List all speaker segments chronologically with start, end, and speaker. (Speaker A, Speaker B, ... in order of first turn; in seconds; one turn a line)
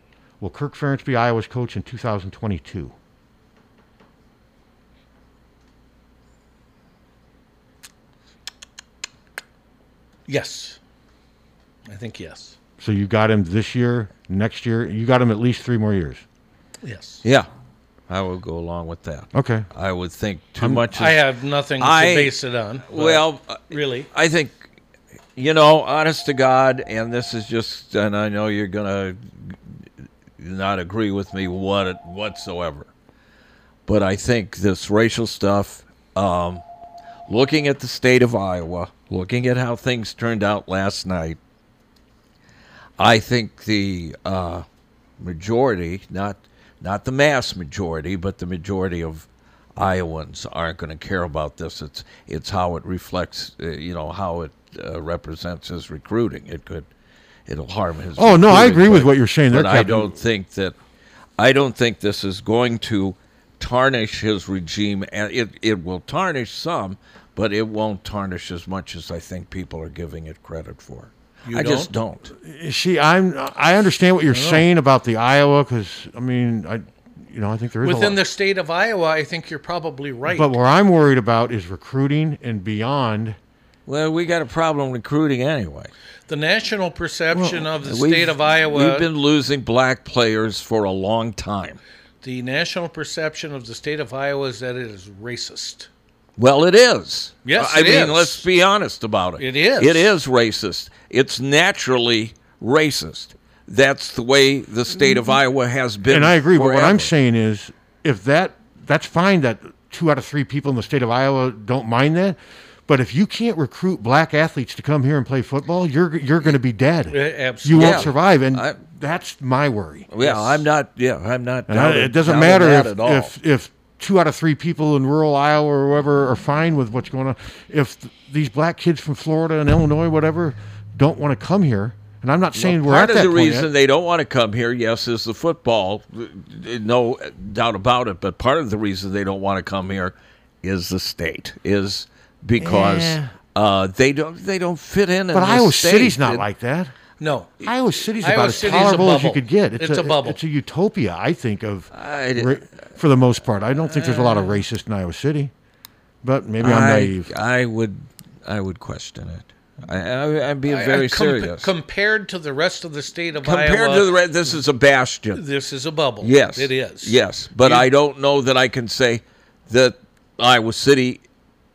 Speaker A: 0.4-2.9
Speaker B: 10.3-10.8
Speaker B: 11.9-12.5
Speaker A: 12.8-16.2
Speaker B: 16.8-17.2
Speaker C: 18.1-21.2
Speaker A: 19.3-19.7
Speaker A: 20.6-20.8
Speaker B: 20.9-24.1
Speaker C: 21.8-22.3
Speaker C: 22.9-24.7
Speaker C: 25.4-29.6
Speaker C: 30.4-32.9
Speaker C: 33.9-36.6
Speaker C: 37.3-41.4
Speaker C: 43.0-44.6
Speaker C: 45.2-49.2
Speaker C: 49.8-56.9
Speaker C: 57.5-60.7
Speaker A: 58.1-60.1
Speaker C: 61.4-72.3
Speaker B: 71.5-71.9
Speaker A: 72.4-78.2
Speaker B: 74.3-74.6
Speaker B: 77.8-80.5
Speaker A: 80.3-83.4
Speaker C: 83.9-85.9
Speaker B: 86.3-89.1
Speaker A: 87.3-87.7
Speaker C: 87.8-91.8
Speaker B: 92.2-95.9
Speaker C: 96.4-107.1
Speaker B: 97.4-98.4
Speaker B: 99.4-100.1
Speaker A: 106.1-120.1
Speaker B: 117.1-118.1
Speaker C: 117.8-118.8
Speaker C: 120.1-123.3
Speaker B: 120.2-120.6
Speaker A: 121.7-133.7
Speaker C: 132.6-146.4
Speaker A: 142.6-143.3
Speaker A: 145.3-146.9
Speaker B: 147.2-147.6
Speaker A: 147.6-155.5
Speaker B: 148.2-150.4
Speaker C: 151.9-152.8
Speaker C: 153.9-154.5
Speaker A: 156.2-157.3
Speaker C: 156.6-161.7
Speaker B: 160.7-164.6
Speaker C: 163.4-165.4
Speaker B: 165.3-167.9
Speaker C: 166.2-171.2